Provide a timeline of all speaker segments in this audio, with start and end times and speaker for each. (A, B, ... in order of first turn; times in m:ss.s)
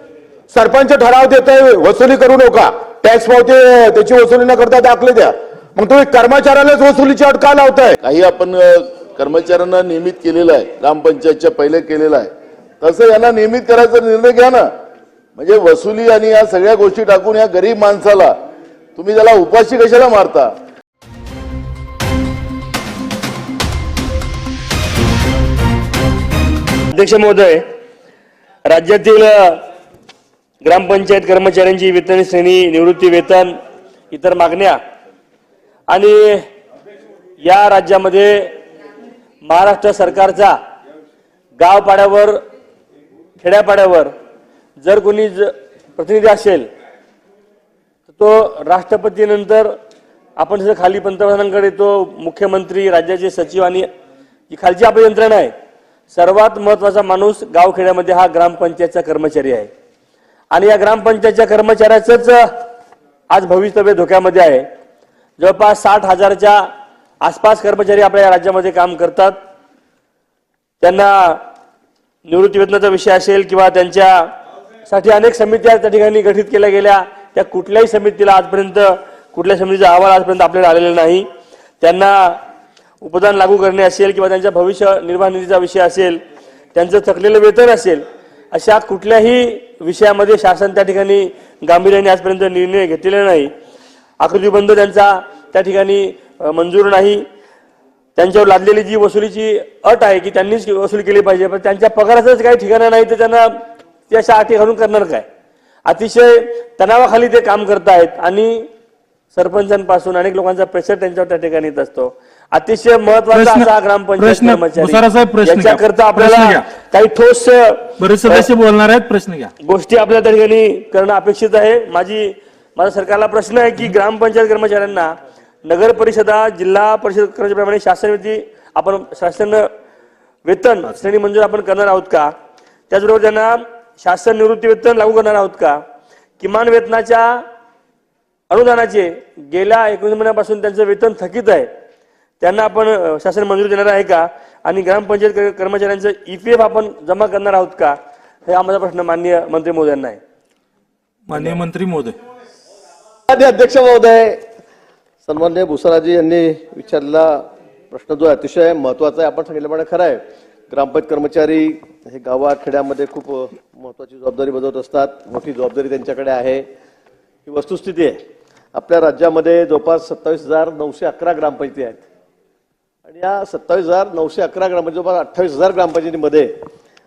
0:00.5-0:08.0 A
0:08.0-0:12.3 B
0:12.8-0:14.7 B
0:15.4-0:18.4 B
0:19.0-0:20.5 B
0:26.9-0:27.6 C
0:28.7-0:29.6 C
0:30.6-0:33.5 C
0:34.1-0:34.8 C
0:35.9-0:36.5 C
0:37.4-0:38.5 C
0:39.4-0:40.6 C
0:41.6-0:42.4 C
0:43.4-0:44.1 C
0:44.8-0:46.7 C
0:48.1-0:49.7 C
0:50.4-0:53.9 C
0:54.5-0:55.5 C
0:56.1-0:59.7 C
1:00.5-1:02.6 C
1:03.3-1:04.7 C
1:05.4-1:06.7 C
1:07.2-1:09.4 C
1:10.8-1:11.4 C
1:12.3-1:14.3 C
1:14.9-1:21.3 C
1:21.8-1:22.4 C
1:23.0-1:26.2 C
1:26.7-1:33.5 C
1:34.2-1:37.2 C
1:38.2-1:45.3 C
1:45.9-1:48.7 C
1:49.3-1:58.5 C
1:53.3-1:56.6 D
1:58.0-1:59.5 D
1:59.6-2:05.1 C
2:05.6-2:09.7 C
2:10.5-2:12.3 C
2:12.9-2:15.8 C
2:16.4-2:17.4 C
2:18.5-2:21.7 C
2:22.4-2:30.2 C
2:31.3-2:32.2 D
2:33.3-2:34.4 E
2:35.2-2:46.7 E
2:47.5-2:48.2 E
2:48.7-2:52.1 E
2:53.1-2:56.5 E